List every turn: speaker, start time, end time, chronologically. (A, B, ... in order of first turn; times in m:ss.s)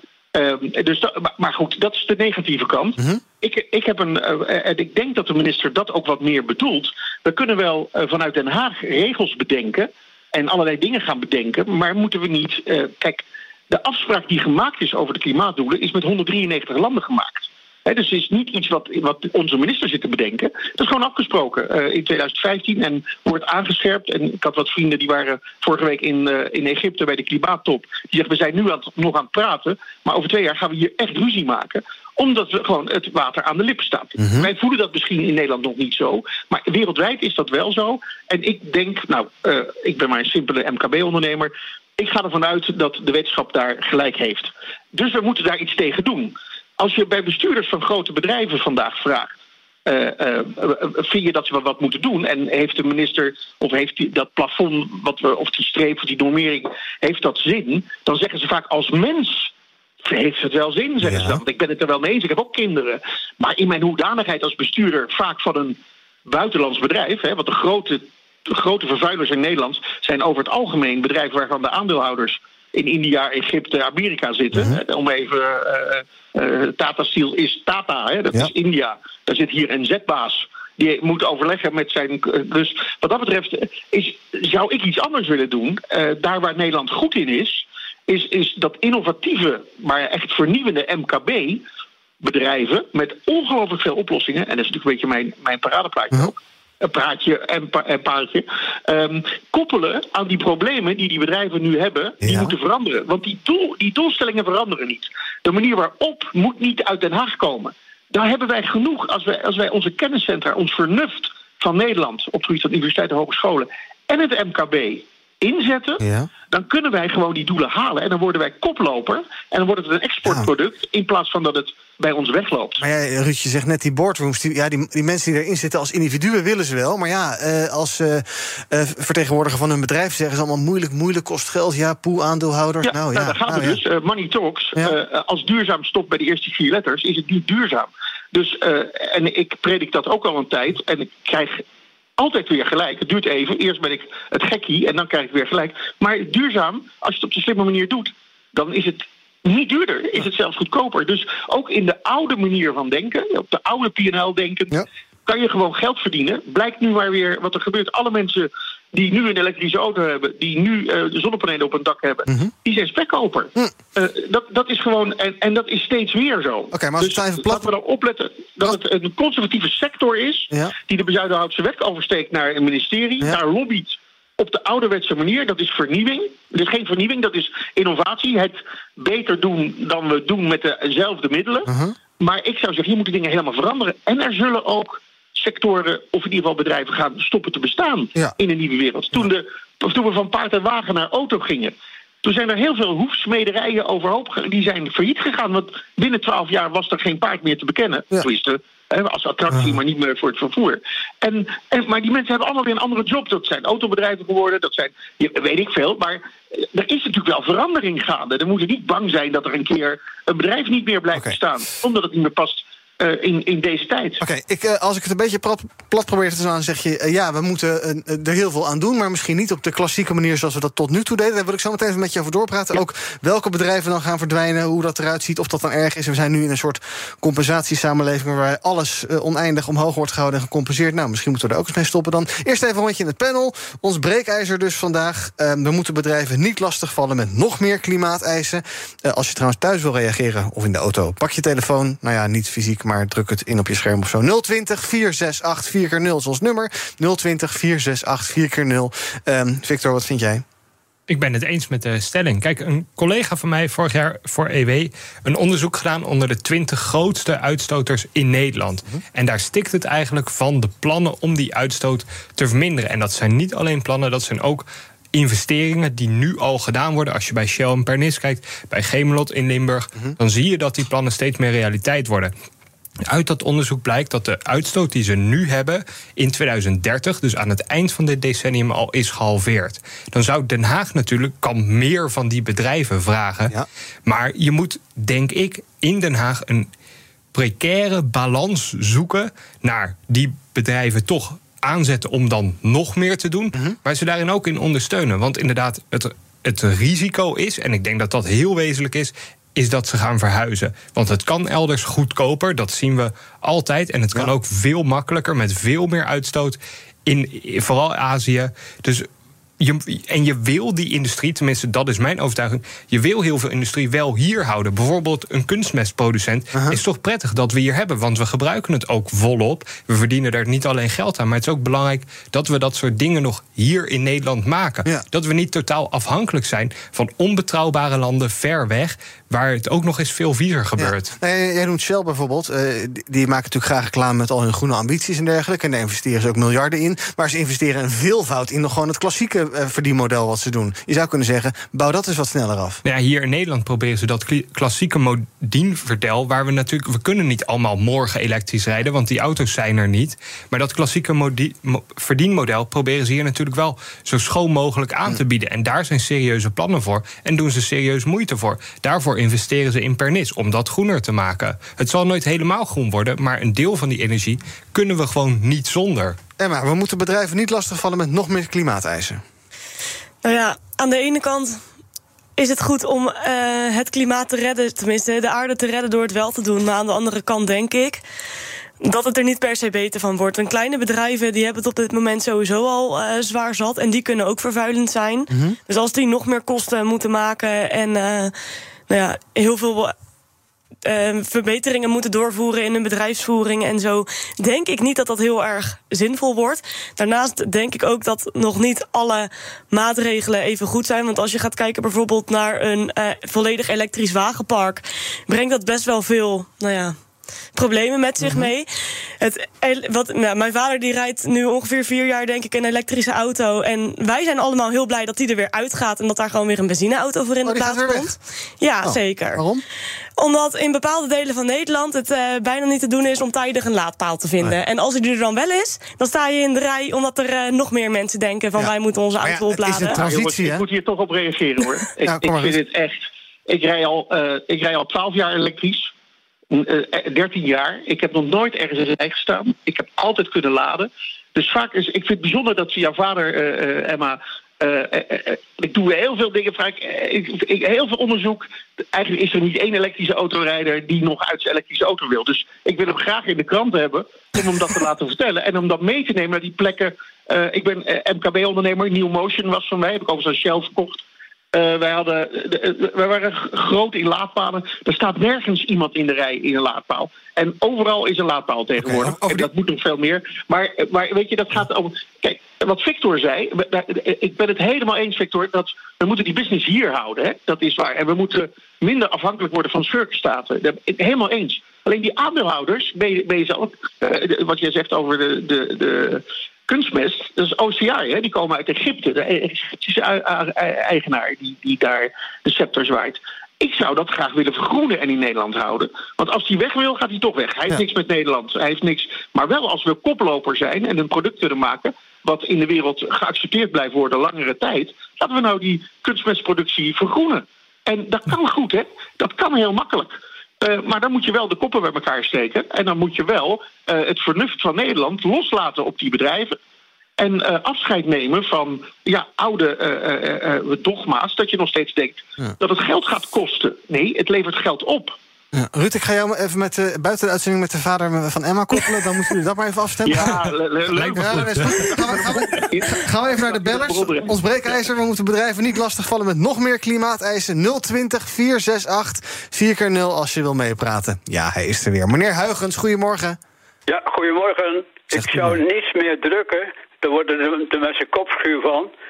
0:00.3-0:49.3 A
0:34.2-0:34.5 B
0:49.8-0:59.5 A
1:00.0-1:31.6 A
1:01.0-1:01.4 B
1:14.5-1:14.8 B
1:32.2-2:02.8 A
1:42.2-1:42.5 B
1:56.0-1:56.3 B
2:02.8-2:13.8 B
2:12.8-2:21.6 A
2:22.2-3:34.2 A
2:42.3-2:42.5 B
2:46.7-2:47.7 B
3:01.7-3:01.9 B
3:19.5-3:19.8 B
3:34.2-4:10.4 B
4:11.1-4:32.3 C
4:33.1-4:43.5 C
4:44.1-4:46.7 C
4:47.3-5:09.1 C
5:09.6-5:31.1 C
5:30.8-5:42.8 B
5:42.8-6:06.2 C
6:06.4-6:09.2 B
6:10.2-6:11.6 D
6:12.4-6:18.0 D
6:18.8-6:28.3 D
6:25.3-6:25.6 B
6:28.9-6:29.9 D
6:30.8-6:46.9 D
6:47.5-6:59.4 D
6:48.2-6:48.5 B
6:57.4-6:58.1 B
6:58.8-6:59.6 B
7:00.2-7:10.0 D
7:08.6-7:10.6 B
7:09.9-7:15.9 A
7:12.0-7:12.6 B
7:16.5-7:41.0 A
7:41.5-8:36.6 A
7:48.8-7:49.5 B
8:37.2-8:45.2 A
8:45.5-8:50.3 B
8:50.0-8:54.4 A
8:50.9-8:51.9 C
8:51.0-9:03.4 B
9:03.9-9:08.9 E
9:05.1-9:05.6 B